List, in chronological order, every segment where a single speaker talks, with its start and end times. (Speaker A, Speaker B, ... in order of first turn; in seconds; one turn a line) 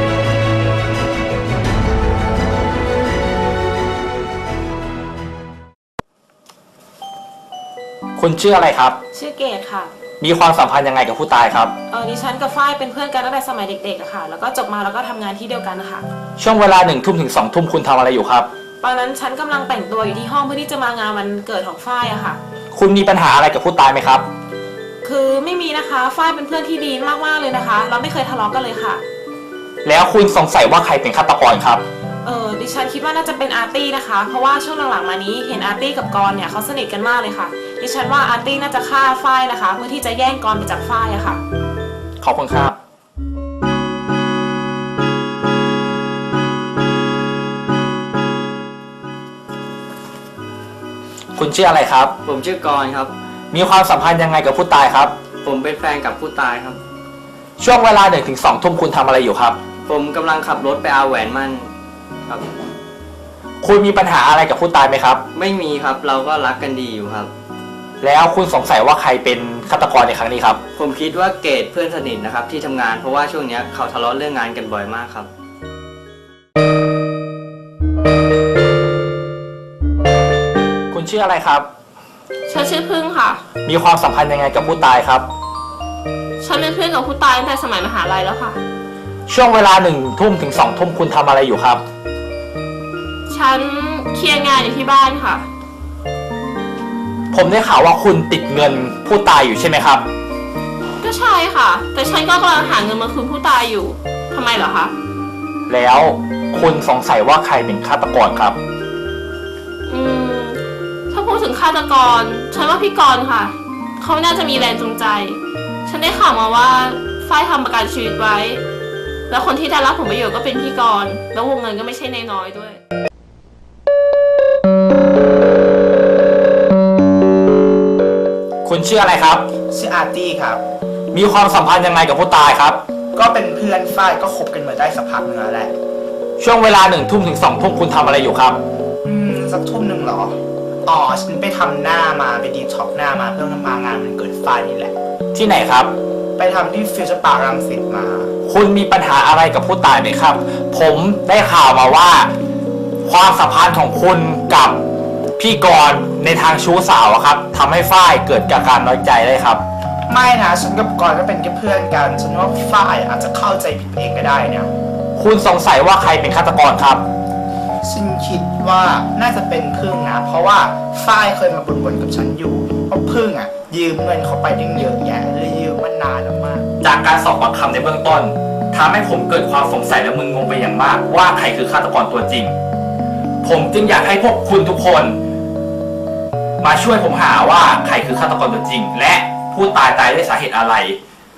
Speaker A: 8.2-9.0
Speaker B: 9.1-9.9
Speaker A: 10.2-11.7
Speaker B: 11.9-16.1
Speaker A: 16.4-18.5
Speaker B: 18.8-22.4
Speaker A: 22.7-24.2
Speaker B: 25.0-29.0
Speaker A: 29.9-31.8
Speaker B: 32.2-41.4
Speaker A: 42.2-42.8
Speaker A: 51.4-52.1
Speaker C: 52.2-53.1
Speaker A: 53.5-55.1
Speaker C: 55.4-56.8
Speaker A: 57.6-59.6
Speaker C: 59.9-61.7
Speaker A: 63.6-65.2
Speaker C: 65.3-67.3
Speaker A: 68.0-70.6
Speaker C: 70.8-75.3
Speaker A: 80.9-81.7
Speaker D: 82.5-83.5
Speaker A: 83.6-85.3
Speaker D: 86.4-88.6
Speaker A: 89.3-91.8
Speaker D: 93.3-95.5
Speaker A: 97.3-100.1
Speaker D: 101.0-104.9
Speaker A: 105.7-108.6
Speaker D: 109.9-110.6
Speaker D: 111.1-118.6
Speaker D: 119.3-122.8
Speaker A: 128.6-129.5
Speaker E: 129.7-130.6
Speaker A: 131.1-132.8
Speaker E: 133.1-135.7
Speaker A: 136.4-138.6
Speaker E: 139.1-140.3
Speaker E: 140.9-144.9
Speaker A: 145.3-145.9
Speaker E: 146.4-148.3
Speaker A: 148.4-152.3
Speaker A: 153.1-154.8
Speaker A: 155.4-159.6
Speaker E: 160.1-164.7
Speaker A: 165.2-167.1
Speaker E: 167.8-176.7
Speaker A: 176.8-182.6
Speaker A: 183.4-185.2
Speaker A: 186.6-191.0